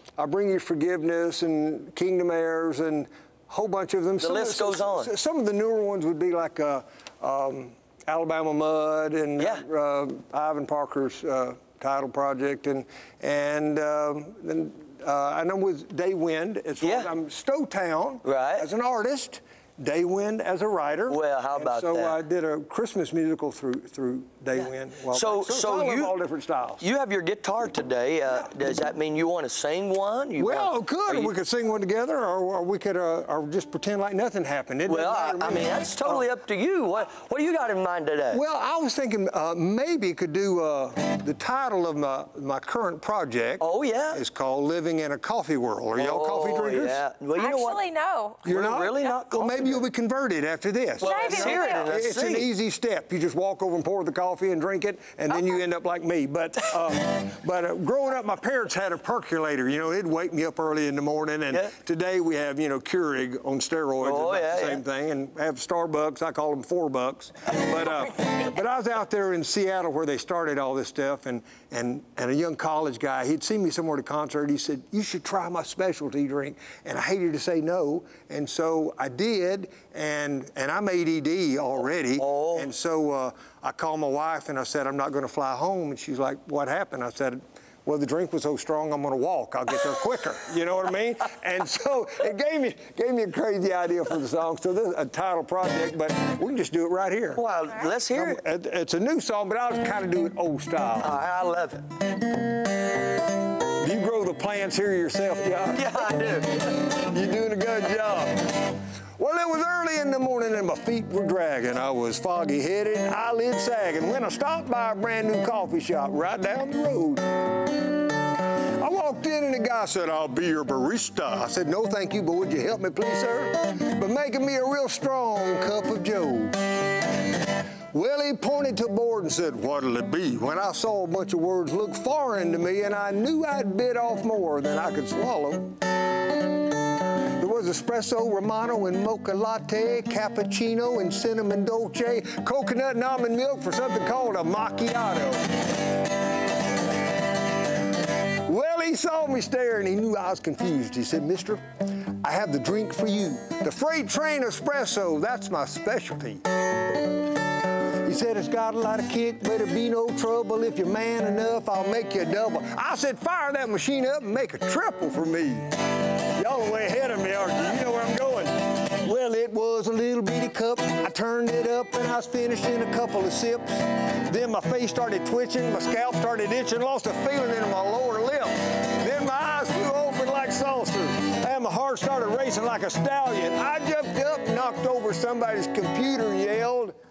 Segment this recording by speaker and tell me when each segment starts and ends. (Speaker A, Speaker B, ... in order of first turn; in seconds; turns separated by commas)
Speaker A: 0.2-26.8, Speaker B: 4.2-5.1, Speaker B: 9.4-9.6, Speaker B: 16.8-17.1, Speaker B: 18.2-18.6, Speaker B: 21.1-22.2, Speaker B: 25.1-26.1, Speaker B: 26.8-31.3, Speaker A: 30.4-36.3, Speaker B: 34.9-38.4, Speaker A: 38.3-47.0, Speaker B: 43.6-44.2, Speaker B: 46.0-47.8, Speaker C: 47.4-49.1, Speaker B: 48.4-49.8, Speaker A: 48.4-97.4, Speaker B: 51.0-52.5, Speaker C: 51.0-51.9, Speaker B: 64.0-64.8, Speaker B: 82.2-82.7, Speaker B: 97.3-98.4, Speaker A: 98.1-101.1, Speaker B: 101.0-101.8, Speaker A: 103.8-106.1, Speaker B: 105.7-106.7, Speaker A: 107.0-117.6, Speaker A: 118.8-127.0, Speaker A: 127.9-135.8, Speaker A: 137.3-145.6, Speaker A: 148.4-156.4, Speaker A: 158.0-165.7, Speaker A: 166.3-187.0